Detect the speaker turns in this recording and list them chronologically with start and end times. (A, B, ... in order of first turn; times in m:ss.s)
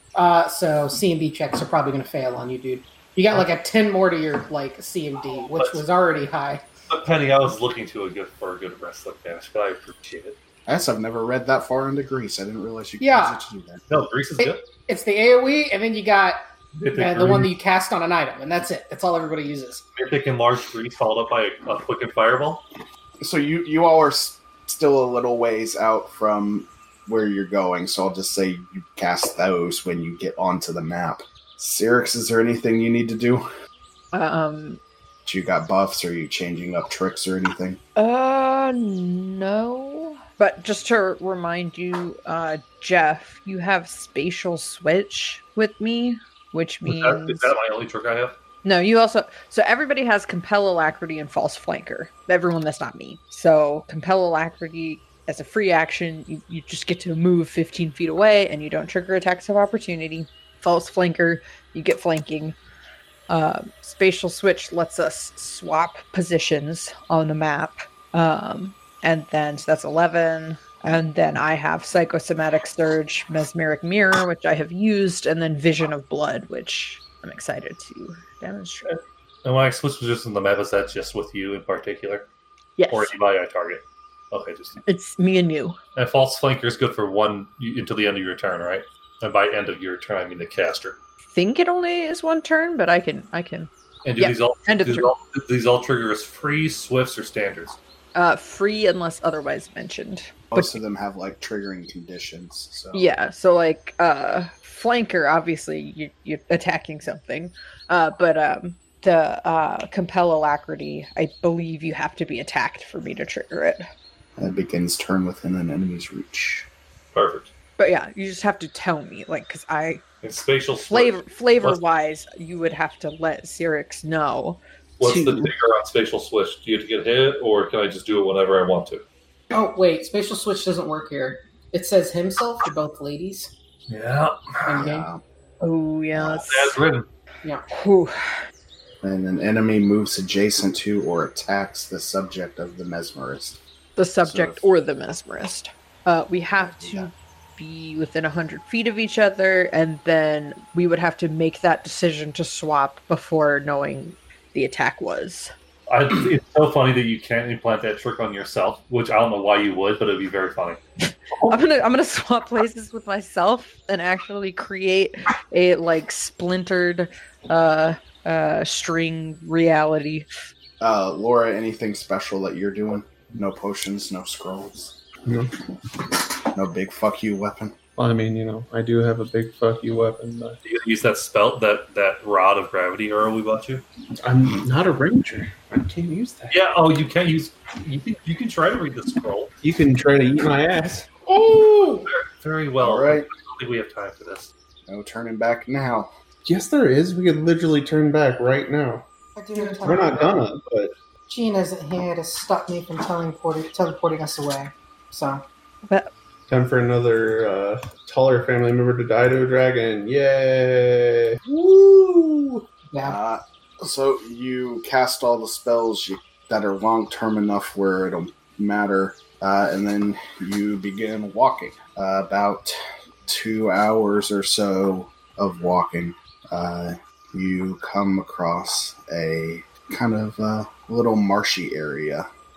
0:00.1-0:06.6 A
0:05.4-0:05.8 B
0:06.9-0:10.4 B
0:10.7-0:13.8 C
0:13.0-0:13.4 A
0:13.9-0:14.6 B
0:14.4-0:16.4 A
0:16.8-0:17.5 B
0:16.9-0:19.8 A
0:20.0-0:22.6 B
0:23.2-0:33.4 C
0:34.1-0:34.8 D
0:35.2-0:37.8 C
0:38.0-0:47.5 D
0:46.8-0:48.4 B
0:48.6-1:02.6 D
1:03.3-1:18.9 D
1:18.9-1:22.3 B
1:22.8-1:23.1 D
1:22.9-1:24.8 B
1:24.8-1:25.8 D
1:25.9-1:31.0 B
1:31.3-1:35.1 D
1:34.0-1:37.8 B
1:38.1-1:40.8 D
1:40.5-1:43.0 C
1:42.9-1:53.8 D
1:54.4-1:56.7 C
1:57.1-1:57.5 B
1:57.8-2:00.0 D
2:00.2-2:01.8 B
2:00.7-2:04.6 D
2:05.0-2:05.5 E
2:05.0-2:09.0 B
2:09.5-2:13.5 A
2:13.9-2:14.8 B
2:14.7-2:15.1 A
2:14.8-2:15.2 C
2:15.6-2:16.8 D
2:16.2-2:17.1 B
2:17.7-2:18.4 D
2:19.0-2:23.6 C
2:24.0-2:35.5 D
2:24.2-2:24.7 C
2:26.5-2:27.1 C
2:35.9-2:40.8 B
2:41.5-2:50.2 D
2:50.8-2:55.0 C
2:55.2-2:55.5 E
2:56.5-2:57.7 C
2:58.0-3:00.6 E
3:00.6-3:03.8 B
3:04.2-3:06.6 E
3:06.5-3:09.5 B
3:09.6-3:12.0 E
3:12.1-3:14.5 B
3:12.8-3:13.3 C
3:14.9-3:16.1 C
3:16.4-3:19.0 E
3:19.4-3:20.4 A
3:19.8-3:20.9 E
3:21.3-3:25.4 A
3:25.8-3:26.1 D
3:26.5-3:31.4 E
3:31.5-3:33.2 A
3:33.0-3:42.7 C
3:43.2-3:52.3 C